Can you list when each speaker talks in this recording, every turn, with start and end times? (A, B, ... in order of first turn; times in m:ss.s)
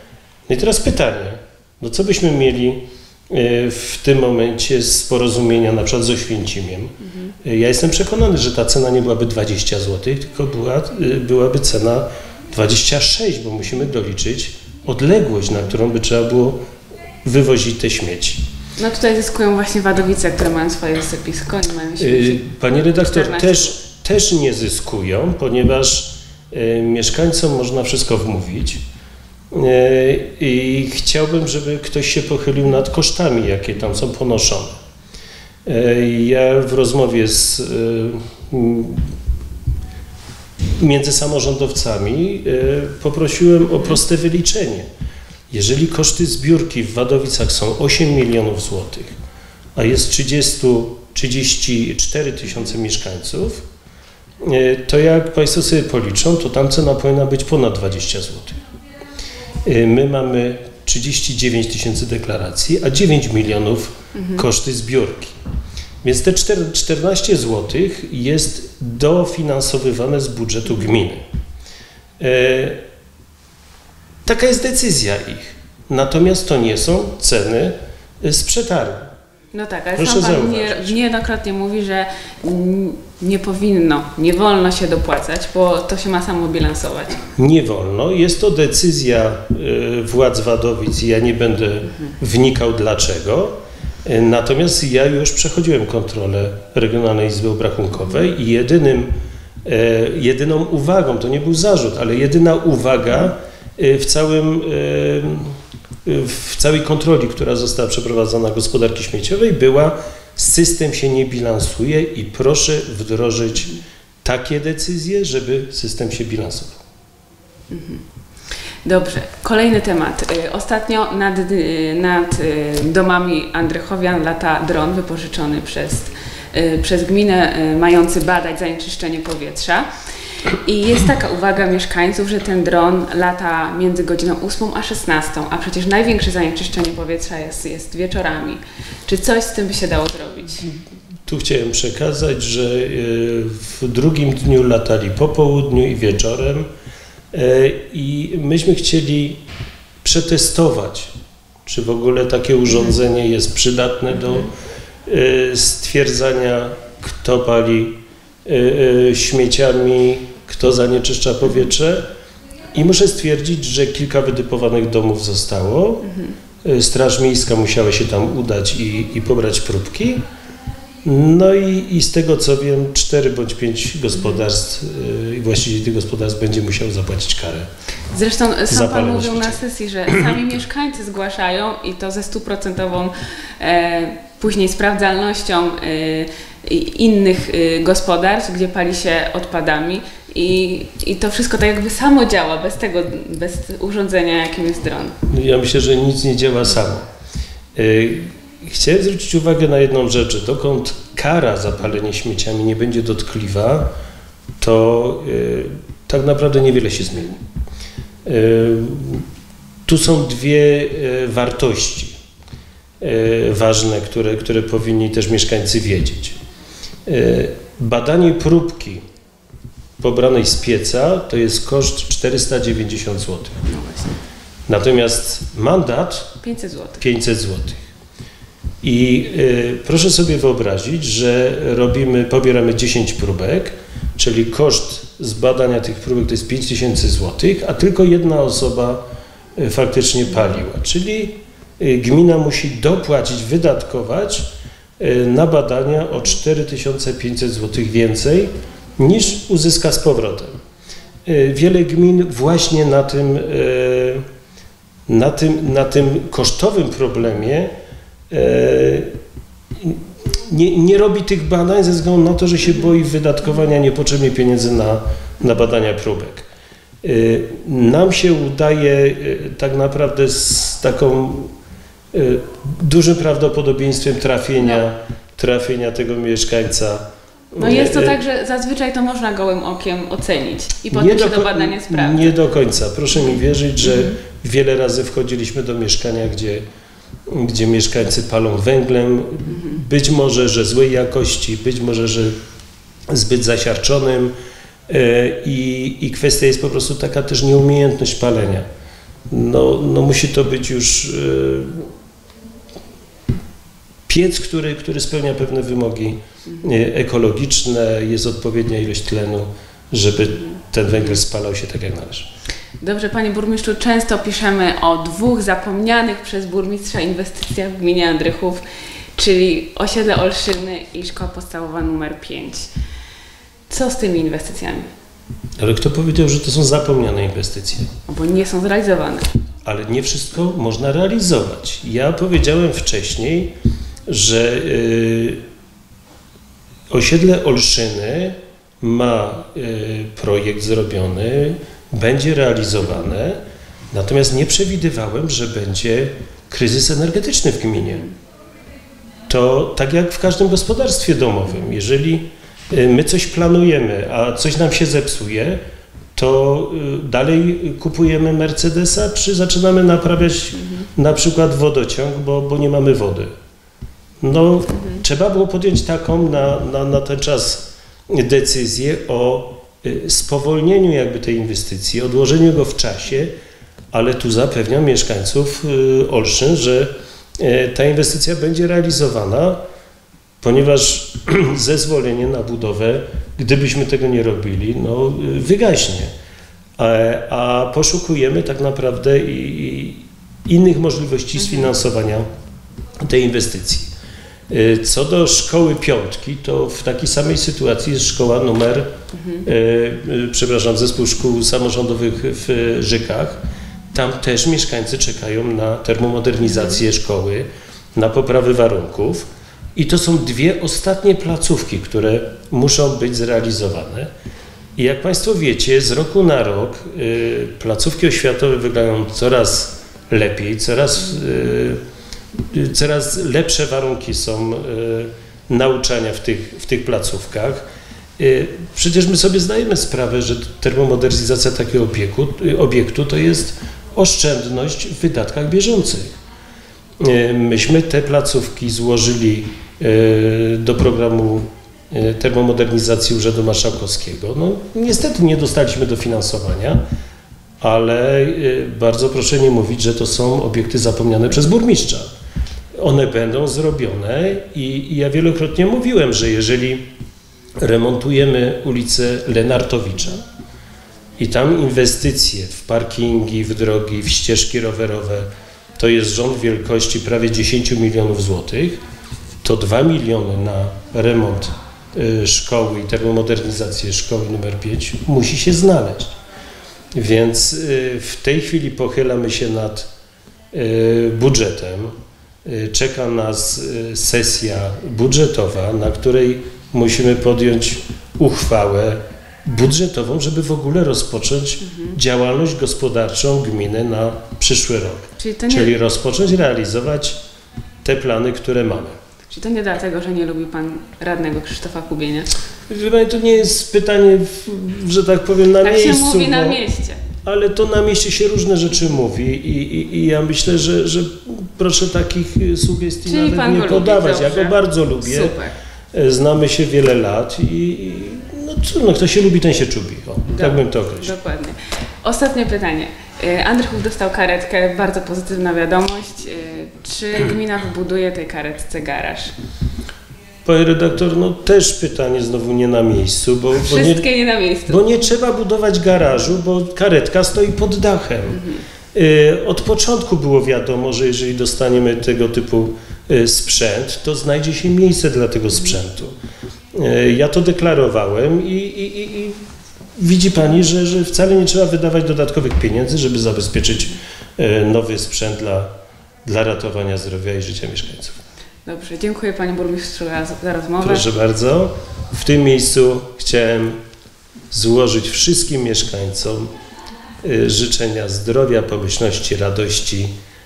0:00.5-0:16.6 A
0:17.2-0:18.4 A
0:18.8-0:23.8 B
0:22.0-0:28.8 A
0:29.5-0:34.8 A
0:35.6-0:39.1 A
0:40.8-0:44.9 A
0:45.5-0:49.1 A
0:49.8-0:53.6 A
0:54.4-0:58.6 A
0:59.6-1:05.4 A
1:04.2-1:04.4 B
1:06.0-1:11.2 A
1:12.2-1:12.8 A
1:14.2-1:19.0 A
1:19.5-1:27.2 B
1:20.0-1:21.0 A
1:27.4-1:39.1 A
1:39.6-1:45.5 A
1:46.0-1:56.8 A
1:57.7-1:58.0 B
1:58.8-2:09.9 B
2:10.6-2:20.7 B
2:21.3-2:26.7 A
2:27.3-2:29.4 A
2:30.0-2:31.1 A
2:31.7-2:34.5 A
2:35.1-2:42.1 A
2:42.7-2:46.1 A
2:46.6-2:50.2 A
2:51.0-2:57.7 A
2:58.1-3:15.2 B
2:58.7-2:59.6 A
3:15.2-3:17.0 A
3:17.8-3:23.9 A
3:24.6-3:27.4 A
3:28.2-3:29.2 A
3:29.9-3:32.1 A
3:33.0-3:36.4 A
3:37.1-3:39.0 A
3:40.0-3:43.7 A
3:43.7-3:44.2 B
3:44.7-3:46.4 A
3:46.4-3:47.0 B
3:47.0-3:47.8 A
3:48.8-3:59.0 A
3:59.6-4:04.5 A
4:05.0-4:10.5 A
4:11.2-4:14.2 A
4:15.1-4:17.7 A
4:18.3-4:19.1 A
4:19.8-4:26.5 A
4:27.0-4:31.5 A
4:32.1-4:38.2 A
4:37.6-4:42.4 B
4:40.9-4:46.6 A
4:43.8-4:44.2 B
4:47.3-4:52.3 A
4:53.1-4:54.3 A
4:54.9-4:58.7 A
4:59.3-5:01.9 A
5:04.1-5:12.3 A
5:12.8-5:18.6 B
5:19.2-5:22.7 B
5:23.7-5:24.9 B
5:25.6-5:27.9 A
5:28.1-5:29.3 B
5:29.6-5:33.5 A
5:34.1-5:35.4 A
5:36.9-5:43.4 A
5:43.9-5:48.1 A
5:49.3-5:55.6 A
5:56.2-6:03.3 A
6:04.2-6:13.3 A
6:13.9-6:19.6 A
6:20.4-6:26.1 A
6:26.8-6:32.3 A
6:33.0-6:33.9 A
6:34.5-6:38.9 A
6:39.4-6:43.4 A
6:43.9-6:54.1 A
6:54.8-7:01.8 A
7:02.5-7:07.7 A
7:08.2-7:16.1 A
7:17.0-7:26.8 A
7:27.6-7:32.1 A
7:32.8-7:36.8 A
7:37.6-7:40.2 A
7:41.2-7:48.8 A
7:49.4-7:56.2 A
7:57.0-7:59.9 A
8:00.5-8:01.9 A
8:02.4-8:17.2 A
8:15.2-8:15.7 B
8:17.8-8:19.0 A
8:19.3-8:22.3 B
8:22.7-8:26.6 A
8:25.6-8:27.0 B
8:27.2-8:35.4 A
8:33.0-8:35.5 B
8:35.9-8:41.1 A
8:40.3-8:49.3 B
8:50.4-8:54.0 A
8:53.5-8:54.9 B
8:54.7-9:06.1 A
9:06.7-9:09.4 A
9:10.0-9:15.7 A
9:16.2-9:18.2 A
9:18.6-9:21.0 B
9:20.8-9:23.8 A
9:24.5-9:26.5 A
9:27.2-9:30.1 A